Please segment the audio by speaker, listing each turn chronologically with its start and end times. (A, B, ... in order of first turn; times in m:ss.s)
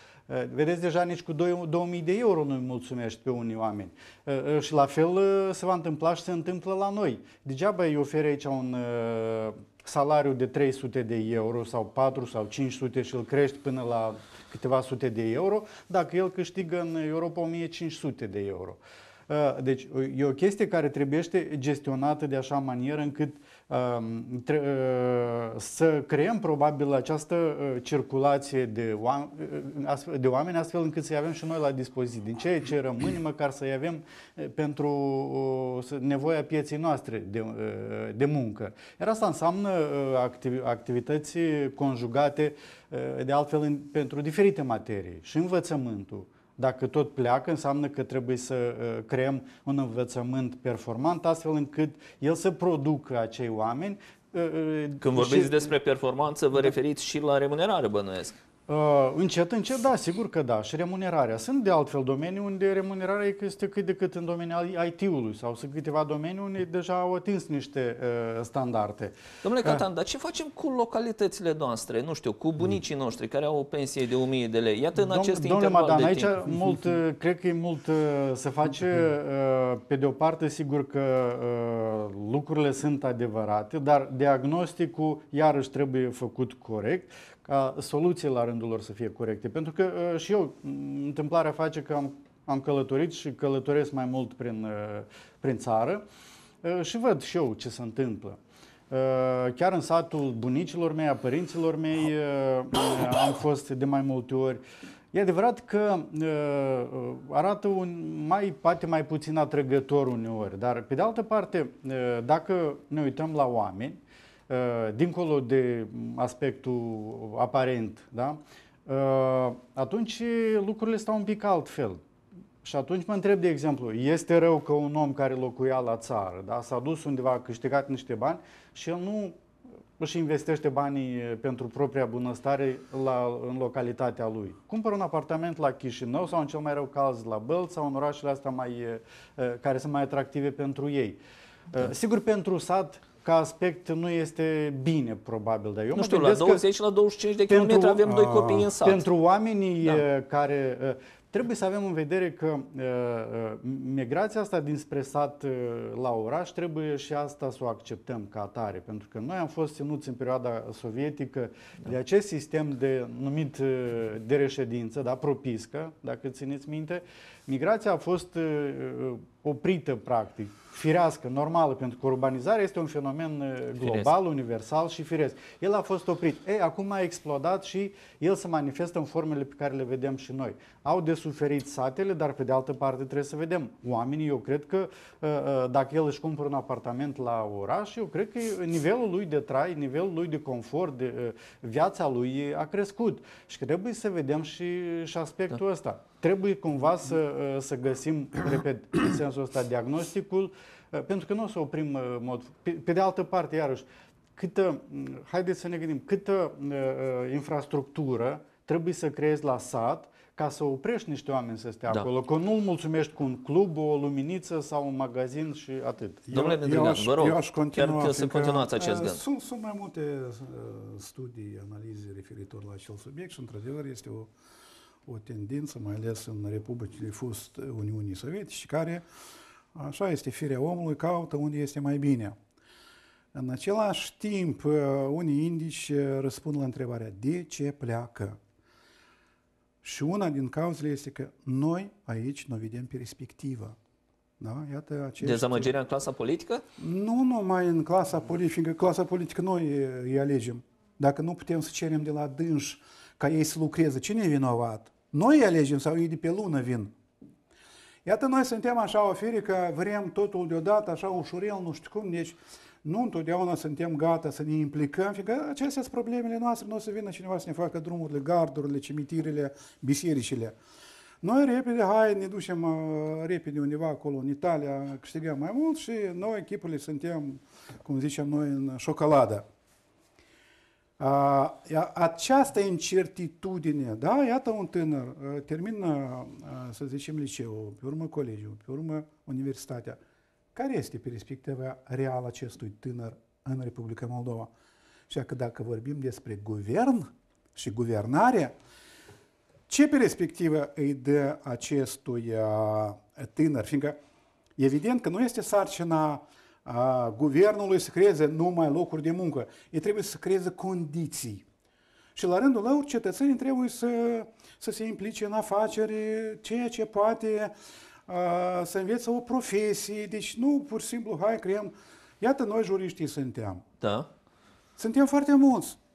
0:00.3-0:55.7 A
0:55.0-0:58.4 B
0:58.7-1:09.8 A
1:09.4-1:16.4 B
1:15.0-1:36.0 A
1:36.6-1:38.4 A
1:38.9-2:02.0 A
2:02.6-2:09.4 A
2:10.0-2:21.2 A
2:21.7-2:26.6 A
2:25.9-2:29.0 B
2:27.5-3:36.3 A
2:53.8-2:54.1 B
3:36.3-3:44.3 C
3:36.3-3:39.2 B
3:45.0-3:49.0 C
3:49.7-3:52.4 C
3:53.3-3:58.4 C
3:59.8-4:03.8 C
4:04.4-4:05.7 C
4:05.2-4:06.6 B
4:06.8-4:16.9 C
4:18.0-4:30.6 C
4:31.2-4:39.4 C
4:41.0-4:50.0 C
4:50.5-4:54.5 C
4:55.1-4:58.5 C
4:59.7-5:04.0 C
5:04.6-5:11.4 C
5:12.1-5:17.5 C
5:18.1-5:23.6 C
5:23.8-5:24.1 B
5:24.8-5:25.8 C